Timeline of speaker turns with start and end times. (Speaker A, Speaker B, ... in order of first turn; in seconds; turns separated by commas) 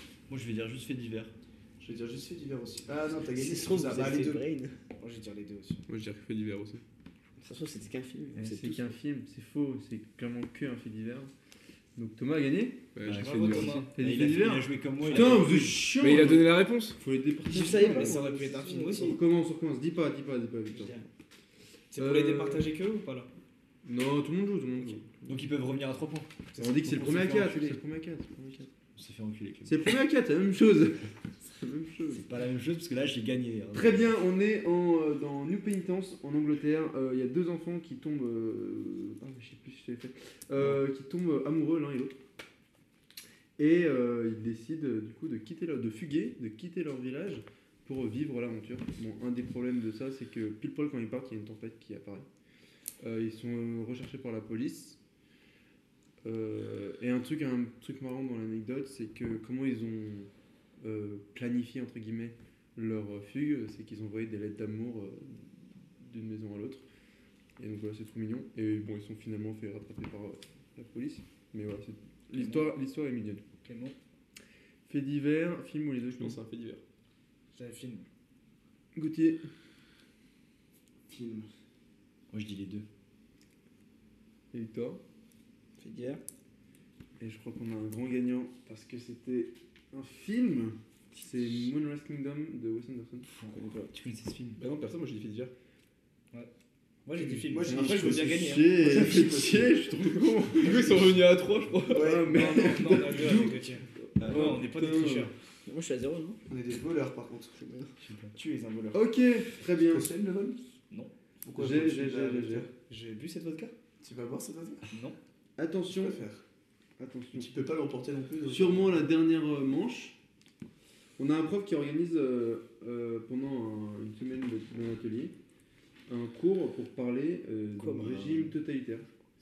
Speaker A: 0.3-1.3, Speaker B: 1.8-4.5, Speaker C: 3.3-4.8, Speaker D: 5.0-5.8, Speaker E: 5.9-6.8, Speaker C: 7.4-8.9, Speaker F: 8.4-11.3, Speaker F: 12.0-12.8, Speaker E: 12.9-13.9, Speaker A: 13.1-15.8, Speaker D: 13.2-13.9, Speaker F: 13.9-18.2, Speaker D: 15.1-15.6, Speaker E: 16.0-17.0, Speaker D: 17.5-19.2, Speaker C: 17.5-19.2, Speaker F: 18.9-20.9, Speaker C: 20.7-21.1, Speaker D: 21.9-23.3, Speaker F: 22.0-22.7, Speaker F: 23.9-25.4, Speaker A: 25.3-27.8, Speaker D: 26.6-27.2, Speaker F: 26.6-28.7, Speaker A: 28.9-29.9, Speaker F: 29.6-32.2, Speaker A: 32.1-34.1, Speaker F: 33.7-42.2, Speaker F: 43.6-52.3, Speaker F: 53.0-55.0, Speaker F: 56.2-60.3, Speaker F: 60.8-66.8, Speaker F: 67.6-73.4, Speaker D: 72.3-72.7, Speaker D: 73.6-74.0, Speaker F: 74.9-76.4, Speaker E: 76.2-76.8, Speaker D: 77.5-78.1, Speaker F: 79.0-79.5, Speaker B: 81.1-81.5, Speaker A: 82.3-82.9, Speaker F: 84.5-85.0, Speaker C: 85.8-86.2, Speaker F: 87.2-93.3, Speaker A: 93.4-94.6, Speaker C: 93.5-93.9, Speaker E: 94.6-95.5, Speaker D: 97.1-98.8, Speaker B: 97.3-99.8, Speaker F: 97.6-101.0, Speaker E: 100.5-102.2, Speaker F: 101.9-105.3, Speaker B: 101.9-102.8, Speaker D: 102.3-105.3, Speaker A: 104.2-104.5, Speaker C: 105.7-106.4, Speaker B: 106.5-107.6, Speaker C: 107.5-107.9, Speaker A: 108.0-108.3, Speaker D: 108.3-109.0, Speaker F: 108.9-110.1, Speaker B: 109.8-110.6, Speaker B: 111.4-112.7, Speaker F: 111.6-112.7, Speaker D: 112.9-113.7, Speaker B: 114.0-114.9, Speaker D: 114.9-115.2, Speaker F: 115.6-116.2, Speaker B: 115.9-116.4, Speaker F: 117.0-117.5, Speaker B: 117.3-119.1, Speaker F: 118.5-120.2, Speaker F: 121.2-125.3, Speaker F: 126.1-129.1, Speaker C: 127.8-128.5